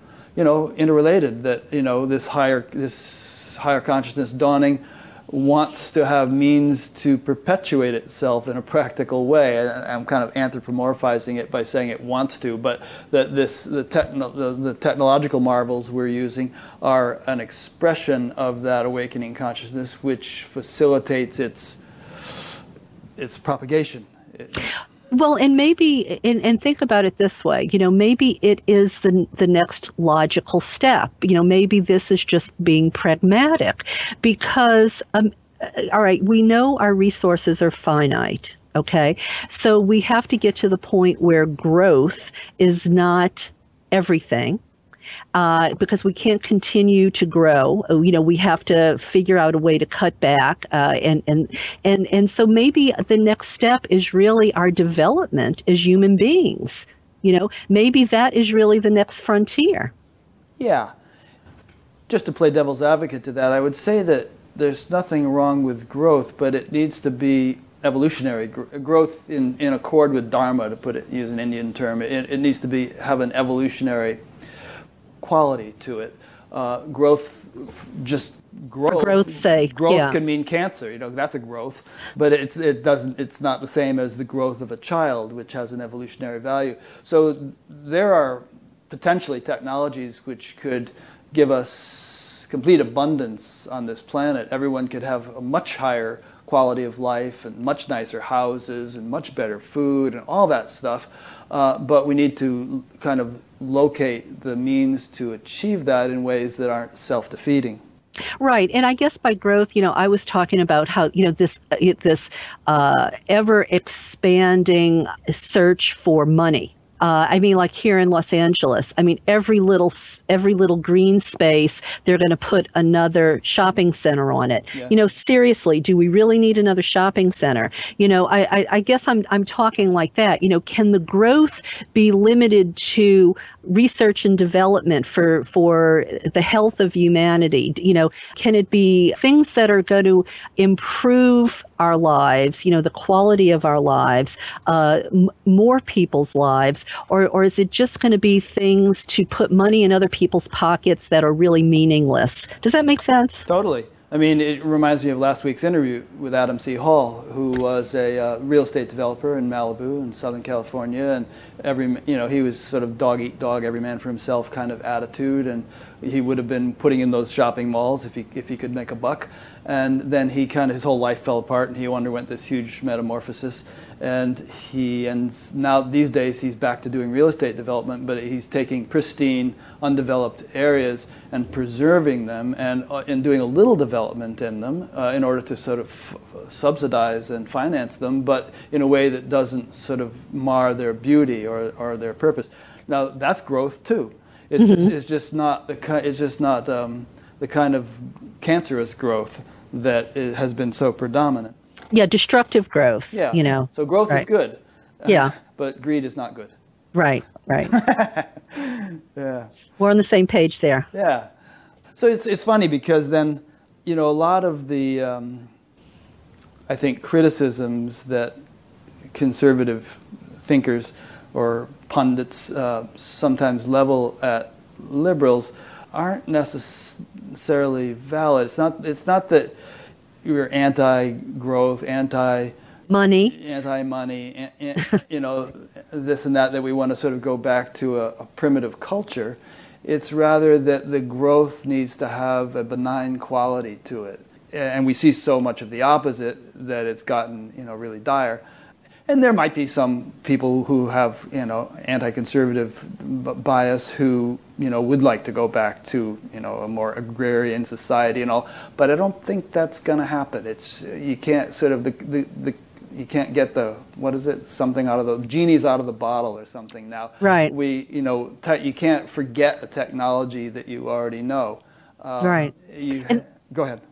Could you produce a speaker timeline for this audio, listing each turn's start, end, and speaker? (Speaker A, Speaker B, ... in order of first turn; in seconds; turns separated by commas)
Speaker A: 0.4-21.8, Speaker A: 23.2-24.7, Speaker B: 25.1-44.6, Speaker B: 45.3-59.9, Speaker A: 60.6-60.9, Speaker A: 62.1-74.2, Speaker A: 75.2-107.8, Speaker B: 78.9-80.2, Speaker B: 108.4-153.5, Speaker A: 153.5-201.6, Speaker B: 194.6-194.9, Speaker B: 201.9-204.2, Speaker A: 203.1-206.5, Speaker B: 205.1-205.3, Speaker B: 206.9-207.7, Speaker A: 207.7-209.5, Speaker B: 209.8-210.9, Speaker A: 210.9-211.3, Speaker A: 212.0-215.5, Speaker A: 216.7-218.3, Speaker A: 219.1-229.5, Speaker A: 230.2-232.5, Speaker B: 232.9-233.3, Speaker A: 233.3-248.4, Speaker A: 249.1-273.8, Speaker B: 267.2-267.5, Speaker B: 272.2-272.5